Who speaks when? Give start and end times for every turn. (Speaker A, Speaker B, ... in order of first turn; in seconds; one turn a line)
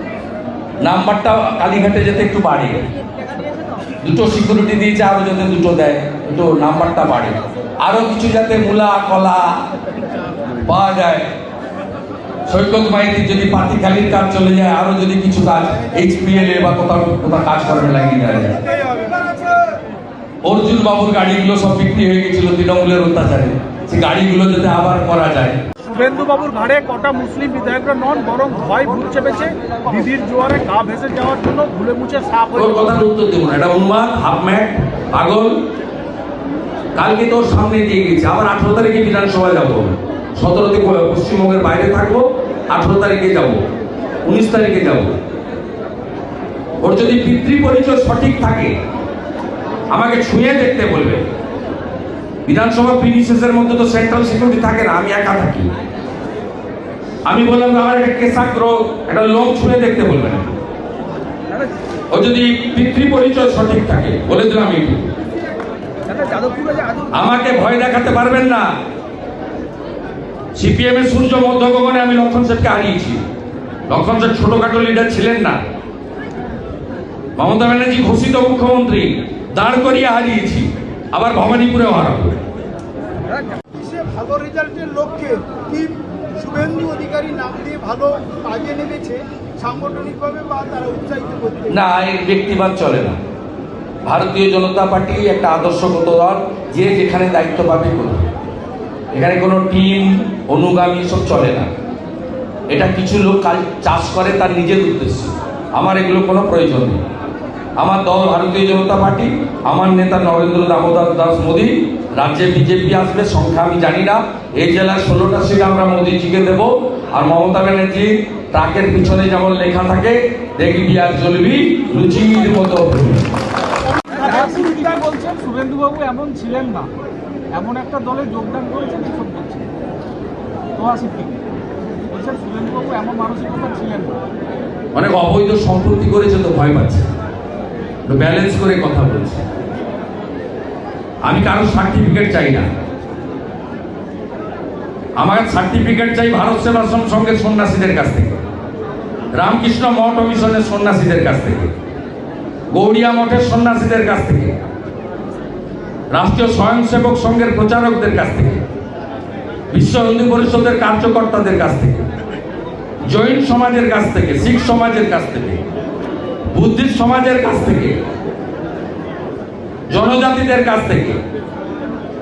Speaker A: 0.8-2.8
Speaker A: 4.0-9.6
Speaker A: 10.6-11.3
Speaker A: 12.5-18.6
Speaker A: 20.4-25.6
Speaker B: 25.8-33.0
Speaker A: 32.5-35.6
Speaker A: 37.0-43.6
Speaker A: 44.2-45.1
Speaker A: 46.8-48.7
Speaker A: 49.9-51.2
Speaker A: 52.5-55.7
Speaker A: 57.2-60.5
Speaker A: 62.1-65.1
Speaker A: 67.1-68.7
Speaker A: 70.5-73.2
Speaker A: 73.9-75.6
Speaker A: 77.4-82.4
Speaker C: 83.7-91.7
Speaker A: 91.7-93.2
Speaker A: 94.0-98.3
Speaker A: 99.1-101.7
Speaker A: 102.7-107.0
Speaker A: 107.8-123.3
Speaker B: 124.0-126.9
Speaker B: 127.5-129.7
Speaker B: 130.8-131.4
Speaker B: 132.1-134.2
Speaker A: 134.9-137.1
Speaker A: 138.1-139.4
Speaker A: 141.2-142.7
Speaker A: 145.2-148.4
Speaker A: 149.3-151.7
Speaker A: 152.7-154.5
Speaker A: 156.1-158.6
Speaker A: 159.7-162.1
Speaker A: 163.0-165.6
Speaker A: 166.5-168.0
Speaker A: 169.9-171.2